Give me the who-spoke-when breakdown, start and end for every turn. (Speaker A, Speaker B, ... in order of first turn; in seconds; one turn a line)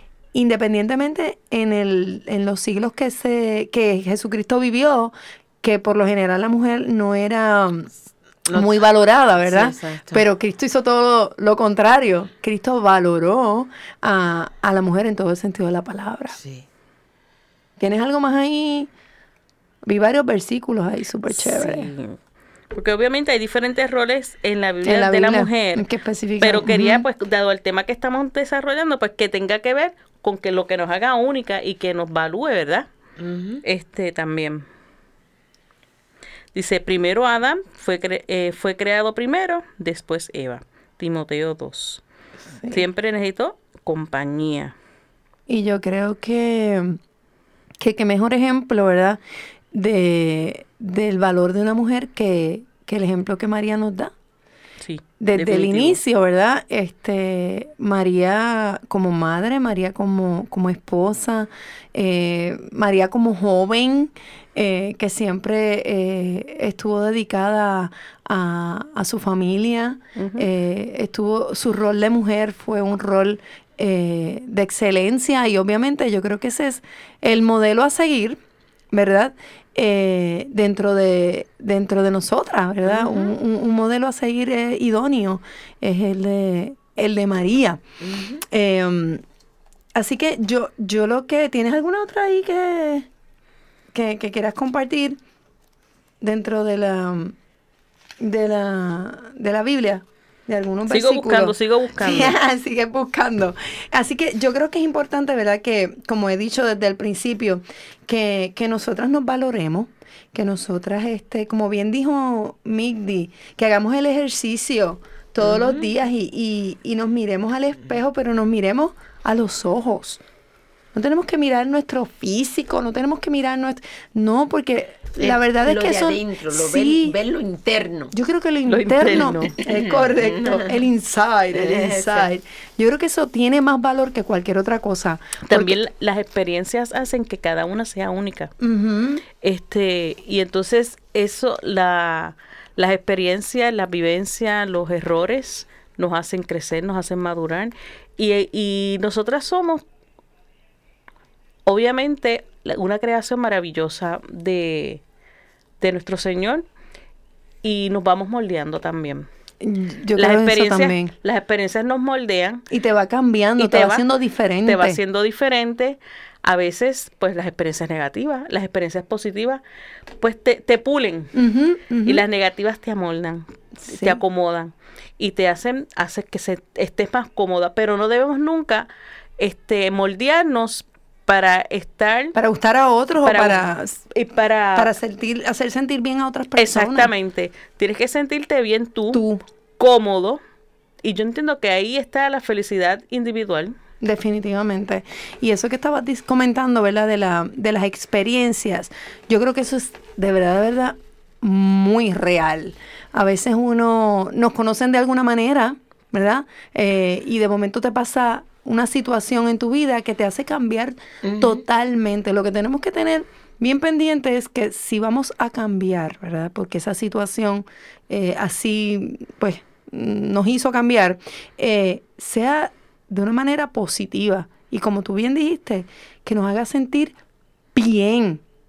Speaker A: 0.3-7.9
Speaker B: 8.5-8.7
Speaker A: 8.5-16.4
Speaker B: 9.4-10.2
Speaker B: 16.3-16.7
Speaker A: 17.8-18.9
Speaker A: 19.8-21.9
Speaker C: 21.3-22.2
Speaker C: 22.7-25.9
Speaker A: 24.8-27.0
Speaker C: 26.4-32.9
Speaker B: 33.2-33.6
Speaker C: 33.6-34.6
Speaker C: 36.5-42.0
Speaker A: 42.6-42.8
Speaker C: 42.7-44.7
Speaker A: 45.5-47.0
Speaker A: 47.8-49.2
Speaker A: 49.7-54.1
Speaker C: 54.8-56.0
Speaker A: 55.2-78.4
Speaker C: 70.2-70.5
Speaker A: 78.9-87.8
Speaker B: 82.8-83.3
Speaker B: 88.0-88.4
Speaker A: 88.5-89.2
Speaker A: 89.9-93.1
Speaker A: 93.9-95.2
Speaker A: 96.2-97.3
Speaker A: 98.2-120.2
Speaker C: 100.9-102.3
Speaker B: 115.4-115.9
Speaker A: 120.9-127.2
Speaker B: 125.2-128.1
Speaker A: 128.1-135.8
Speaker C: 128.7-129.6
Speaker B: 129.6-130.8
Speaker B: 131.5-132.3
Speaker C: 135.5-138.5
Speaker A: 138.6-139.2
Speaker C: 139.4-149.8
Speaker C: 151.7-155.0
Speaker C: 155.8-156.6
Speaker C: 157.6-159.3
Speaker A: 159.6-161.1
Speaker C: 160.2-162.6
Speaker A: 162.7-165.0
Speaker C: 163.6-164.0
Speaker C: 164.6-169.6
Speaker C: 170.2-171.3
Speaker A: 171.3-172.2
Speaker C: 172.0-178.9
Speaker A: 173.8-174.2
Speaker C: 179.4-182.3
Speaker A: 182.3-184.1
Speaker C: 183.2-184.9
Speaker A: 184.7-187.1
Speaker C: 186.6-189.2
Speaker A: 189.1-189.4
Speaker C: 189.8-190.4
Speaker C: 191.0-193.7
Speaker A: 194.0-227.2
Speaker B: 211.2-211.6
Speaker A: 227.7-228.4